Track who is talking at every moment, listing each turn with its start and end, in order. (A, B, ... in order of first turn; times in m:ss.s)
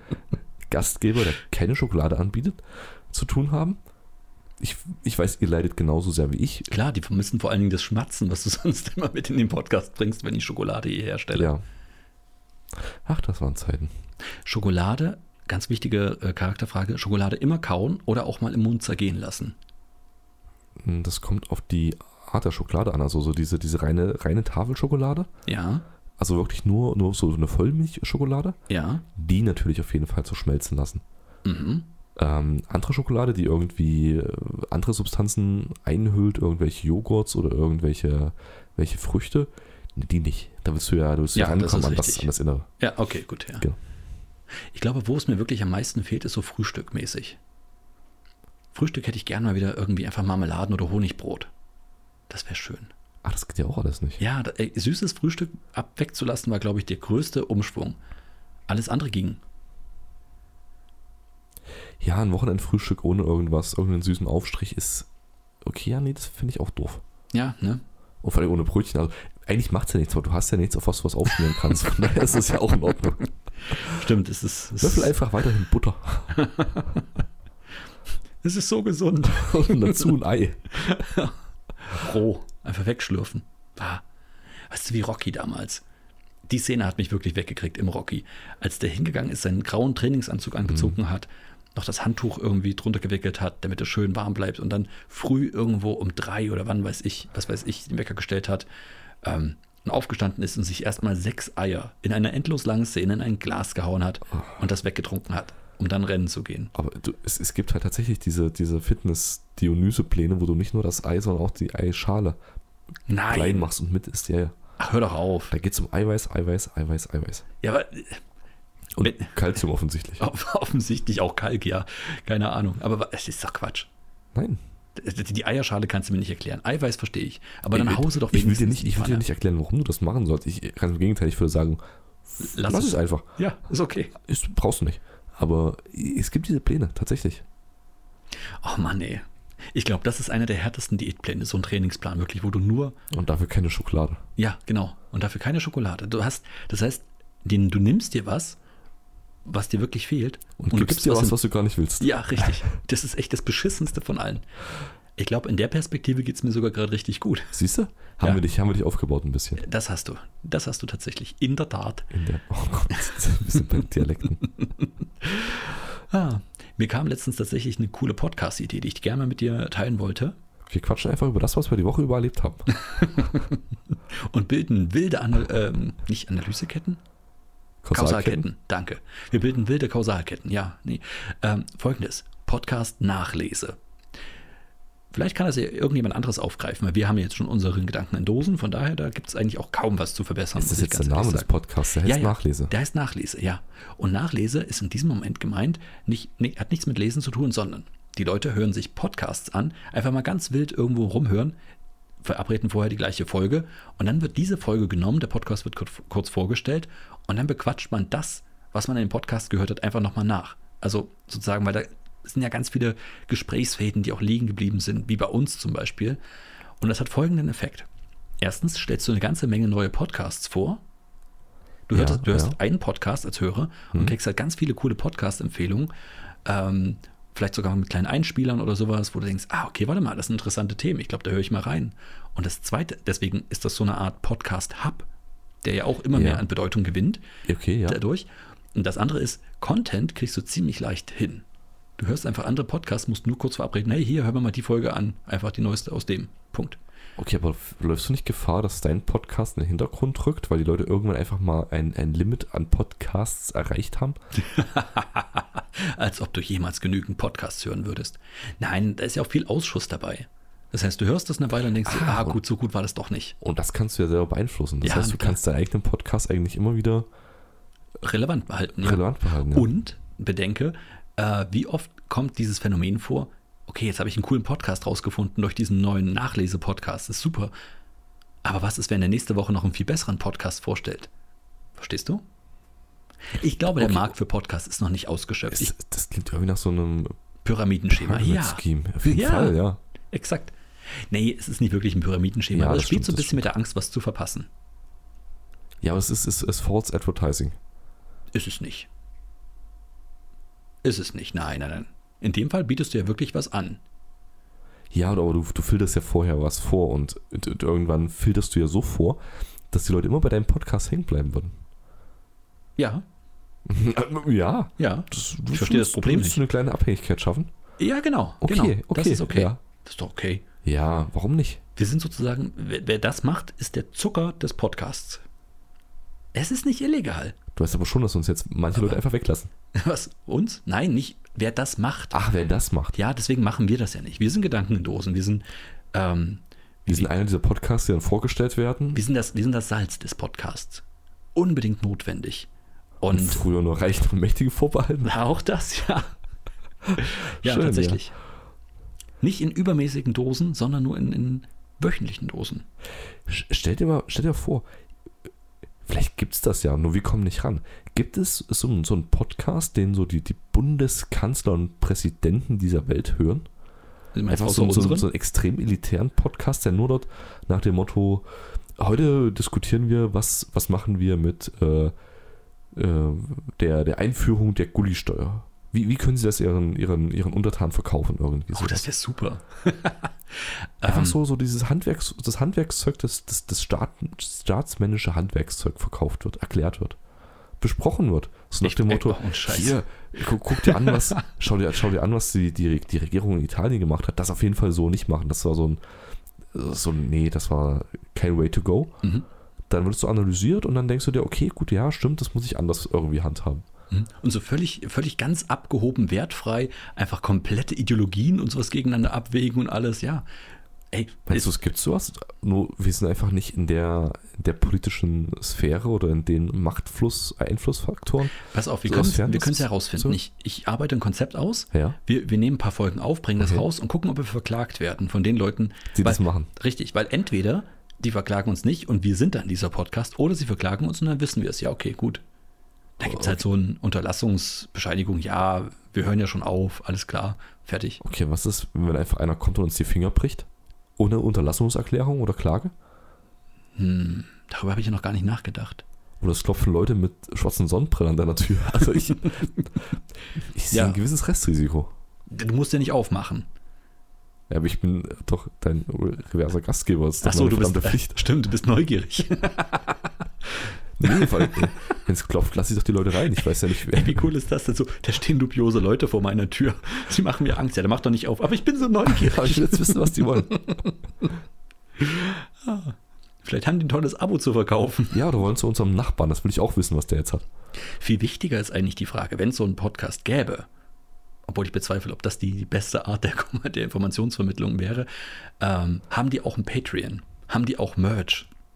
0:00.7-0:03.8 A
0:04.6-0:06.7 A
0:06.7-0:11.5 B
0:11.4-0:11.6 A
0:13.0-0:13.9 A
0:14.4-0:19.6 B
0:20.8-0:25.3 A
0:25.5-0:25.8 B
0:26.2-0:28.6 A
0:28.7-0:29.0 B
0:29.2-0:31.0 A
0:31.4-0:31.9 B
0:32.2-0:42.7 A
0:41.4-0:43.7 B
0:44.7-0:47.4 B
0:48.7-0:51.5 B
0:52.3-0:52.9 B
0:53.2-0:54.2 A
0:54.2-0:58.0 B
0:58.7-0:59.4 B
1:02.0-1:05.1 A
1:05.6-1:07.0 A
1:07.3-1:07.8 B
1:08.2-1:13.3 A
1:13.7-1:15.2 B
1:14.8-1:16.4 A
1:16.4-1:17.0 B
1:18.4-1:20.1 B
1:19.2-1:20.8 A
1:20.7-1:24.0 B
1:24.7-1:25.8 B
1:26.5-1:38.7 B
1:30.7-1:31.0 A
1:39.2-1:46.7 B
1:46.7-1:52.4 A
1:53.1-1:53.7 B
1:53.3-1:54.6 A
1:54.8-1:55.5 B
1:55.5-1:57.5 A
1:57.6-1:58.2 B
1:59.0-2:00.2 A
1:59.0-1:59.3 B
2:00.2-2:03.9 B
2:04.3-2:04.6 A
2:05.0-2:09.3 B
2:07.7-2:11.8 A
2:12.4-2:13.3 A
2:12.4-2:14.1 B
2:14.2-2:17.4 A
2:18.6-2:23.0 B
2:23.1-2:24.2 A
2:24.4-2:28.6 B
2:29.4-2:31.4 B
2:30.6-2:32.6 A
2:32.0-2:34.4 B
2:35.2-2:37.6 B
2:37.5-2:39.6 A
2:39.6-2:42.1 B
2:42.1-2:44.4 A
2:44.8-2:50.4 B
2:50.7-2:52.7 A
2:52.8-2:53.6 B
2:54.1-2:57.0 B
2:57.8-2:58.4 A
2:57.9-3:03.8 B
3:05.1-3:21.6 B
3:10.6-3:12.7 A
3:22.2-3:36.2 B
3:36.8-3:37.9 B
3:38.4-3:40.8 B
3:41.9-3:45.9 B
3:41.9-3:42.6 A
3:46.4-3:55.1 B
3:55.6-3:57.2 B
3:56.1-3:56.4 A
3:57.5-3:58.0 A
3:57.9-4:01.4 B
4:02.0-4:06.8 B
4:07.2-4:14.2 A
4:14.4-4:23.4 B
4:21.8-4:22.4 A
4:23.4-4:27.1 A
4:24.8-4:25.4 B
4:28.0-4:37.5 B
4:28.8-4:29.7 A
4:38.4-4:41.1 B
4:41.8-4:42.2 B
4:43.3-4:45.7 B
4:43.8-4:44.1 A
4:45.5-4:47.2 A
4:47.4-4:49.6 B
4:47.9-4:49.8 A
4:50.1-4:54.5 B
4:52.5-4:53.5 A
4:55.8-4:57.6 A
4:58.3-4:58.9 B
5:00.8-5:03.8 B
5:04.9-5:09.2 A
5:09.7-5:11.6 A
5:12.8-5:13.0 B
5:13.7-5:17.5 A
5:14.8-5:16.4 B
5:17.8-5:20.4 B
5:18.4-5:19.6 A
5:20.6-5:21.6 A
5:21.8-5:25.2 B
5:26.3-5:27.4 B
5:27.6-5:29.5 A
5:29.7-5:32.2 B
5:32.1-5:33.0 A
5:32.9-5:37.1 B
5:36.9-5:39.0 A
5:39.0-5:40.8 B
5:41.4-5:42.5 B
5:43.0-5:43.4 B
5:43.1-5:45.1 A
5:45.0-5:46.2 B
5:46.9-5:48.0 A
5:47.0-5:48.2 B
5:49.2-5:52.7 B
5:53.3-5:54.6 A
5:55.8-6:03.5 A
6:04.2-6:05.1 B
6:04.3-6:11.9 A
6:12.7-6:18.8 A
6:18.5-6:21.2 B
6:20.8-6:27.0 A
6:27.6-6:35.8 A
6:28.6-6:29.8 B
6:30.5-6:31.2 B
6:36.5-6:39.0 A
6:39.7-6:43.7 A
6:43.9-6:50.3 B
6:50.9-6:51.5 B
6:51.3-7:00.2 A
6:58.4-7:12.2 B
7:01.7-7:02.0 A
7:03.4-7:03.6 A
7:05.9-7:06.5 A
7:13.0-7:18.0 B
7:13.0-7:13.4 A
7:18.0-7:22.7 A
7:23.8-7:25.8 B
7:26.2-7:29.5 A
7:29.2-7:29.6 B
7:30.4-7:31.9 A
7:30.7-7:31.0 B
7:32.3-7:33.5 B
7:34.5-7:38.2 A
7:37.2-7:42.0 B
7:41.0-7:44.3 A
7:43.7-7:51.3 B
7:49.1-7:50.7 A
7:52.0-7:55.2 B
7:55.1-7:57.5 A
7:57.9-8:00.7 B
8:01.5-8:05.1 B
8:05.6-8:08.5 B